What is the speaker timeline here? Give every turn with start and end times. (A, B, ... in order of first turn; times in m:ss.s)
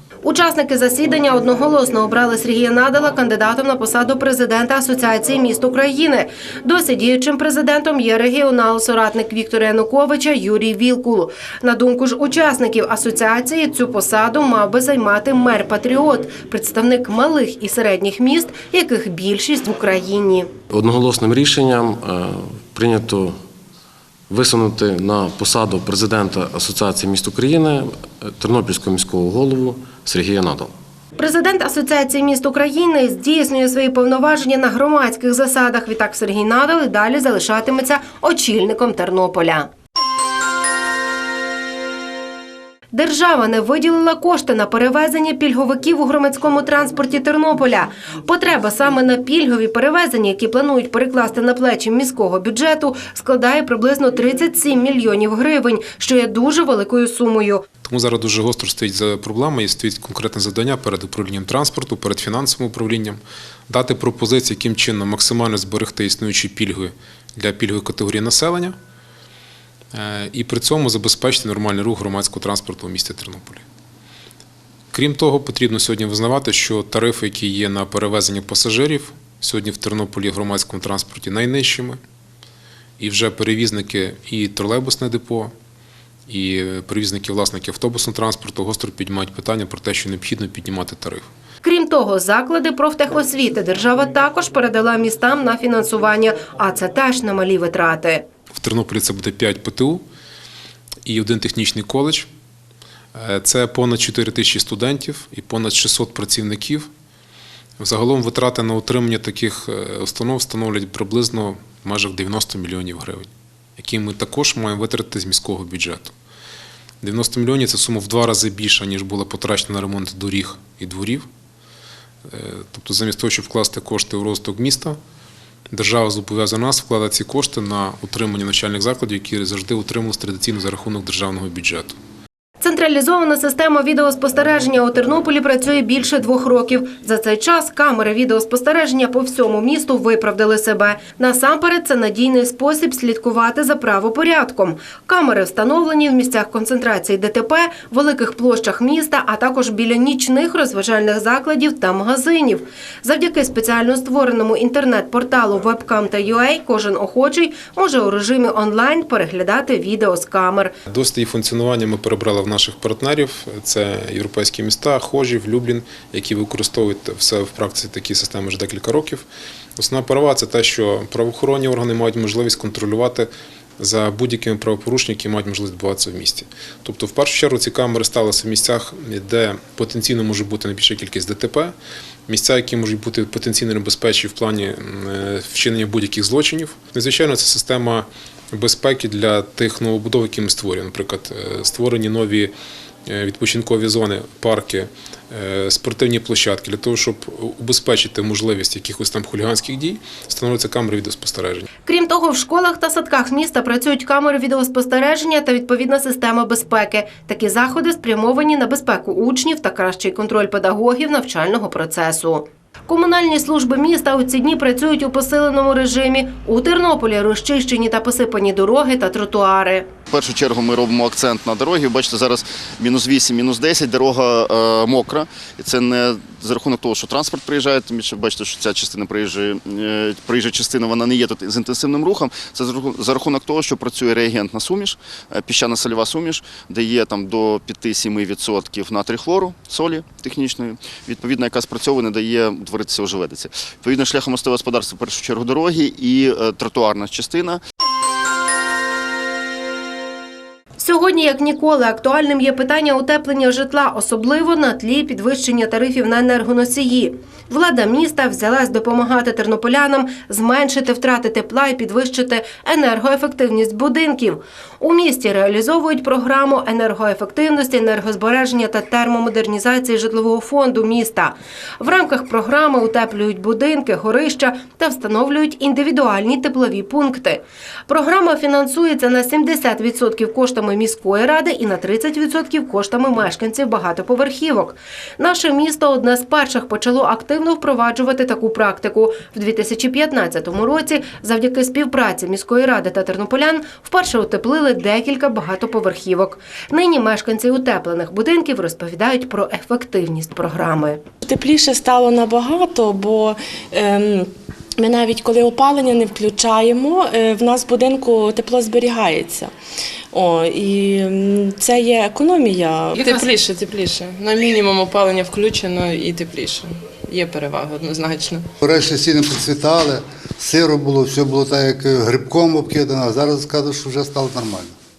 0:00.2-0:20.5 A
0:20.7-0:23.4 B
0:24.3-0:30.7 B
0:31.2-0:39.7 A
0:42.9-0:57.6 A
0:57.8-1:08.8 C
1:09.9-1:13.6 C
1:14.9-1:22.0 C
1:23.0-1:25.5 C
1:26.3-1:31.2 C
1:31.6-1:38.2 A
1:38.5-1:40.0 C
1:41.0-1:42.3 C
1:43.1-1:46.9 C
1:47.8-1:56.1 C
1:57.0-2:01.2 C
2:02.3-2:05.0 C
2:05.7-2:11.9 C
2:12.6-2:40.7 A
2:40.9-2:49.2 C
2:49.8-2:53.3 C
2:53.8-3:01.7 C
3:02.3-3:12.5 C
3:13.1-3:21.6 C
3:21.8-3:39.9 A
3:40.1-4:07.6 D
4:10.8-5:01.0 A
5:01.2-5:09.5 E
5:10.1-5:13.4 E
5:13.0-5:18.4 F
5:18.6-5:24.7 G